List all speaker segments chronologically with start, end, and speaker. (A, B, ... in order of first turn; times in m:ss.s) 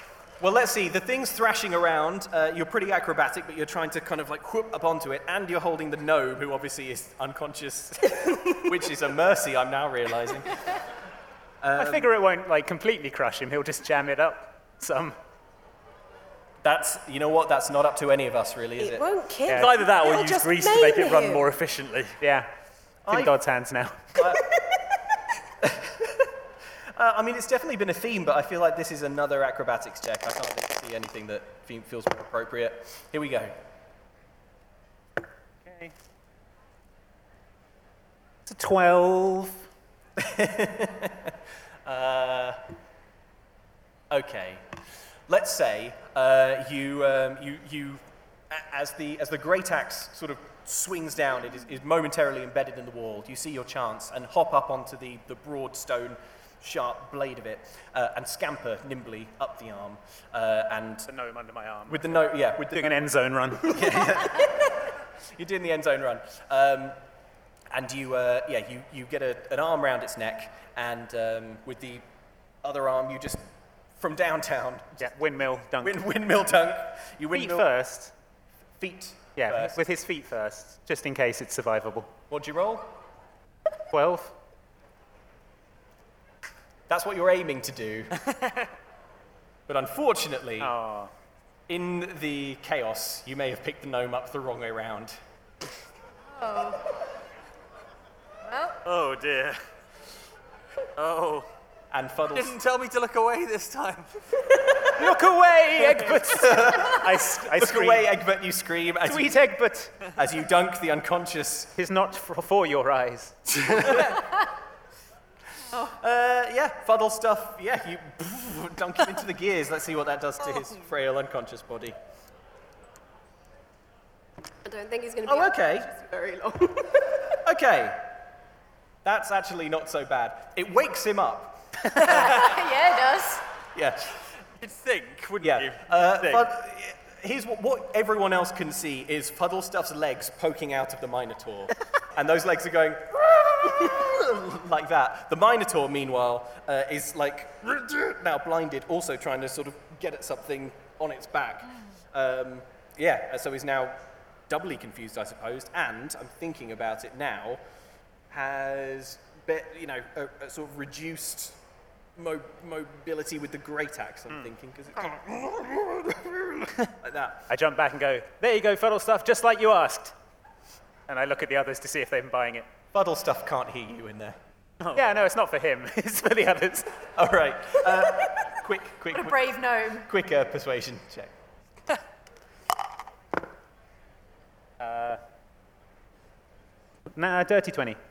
0:00.4-0:10.8 A
0:11.6-0:12.1 A
0:11.8-0:15.2 B
0:16.6-0:19.1 A
0:18.8-0:21.5 C
0:19.5-0:19.7 B
0:19.5-0:22.2 D
0:22.2-0:22.5 B
0:23.0-0:23.3 A
0:23.1-0:24.4 B
0:24.1-0:24.4 A
0:25.6-0:26.3 A
0:26.9-0:33.6 A
0:38.4-0:39.6 B
0:40.2-0:42.6 A
0:44.1-0:44.6 A
0:45.3-1:01.1 A
1:01.1-1:04.1 B
1:01.9-1:03.0 A
1:03.6-1:07.0 A
1:07.7-1:12.0 A
1:12.6-1:13.4 A
1:14.0-1:15.1 A
1:15.0-1:16.0 B
1:15.8-1:17.7 A
1:17.3-1:18.1 B
1:18.8-1:19.8 A
1:19.4-1:22.1 B
1:22.3-1:22.9 A
1:23.9-1:24.4 B
1:26.9-1:28.2 A
1:29.7-1:30.7 A
1:30.6-1:31.1 B
1:31.7-1:35.2 A
1:36.3-1:36.9 E
1:38.4-1:38.8 E
1:38.8-1:39.6 D
1:41.0-1:41.5 D
1:41.9-1:42.6 A
1:42.3-1:44.2 D
1:45.0-1:48.1 B
1:46.0-1:49.4 A
1:49.0-1:50.0 B
1:50.1-1:51.7 A
1:51.8-1:53.5 B
1:53.5-1:54.2 A
1:55.8-2:02.0 A
2:04.6-2:07.3 C
2:05.2-2:05.9 A
2:07.4-2:08.2 A
2:09.0-2:12.6 A
2:11.9-2:13.4 E
2:13.7-2:14.2 A
2:14.6-2:16.5 D
2:15.4-2:37.6 A
2:38.3-2:41.6 A
2:42.2-2:47.4 A
2:47.5-2:50.1 B
2:51.1-2:52.7 B
2:52.9-2:54.4 A
2:54.9-2:57.0 B
2:57.1-3:01.3 A
2:59.1-3:00.1 E
3:04.8-3:05.2 B
3:07.1-3:08.0 B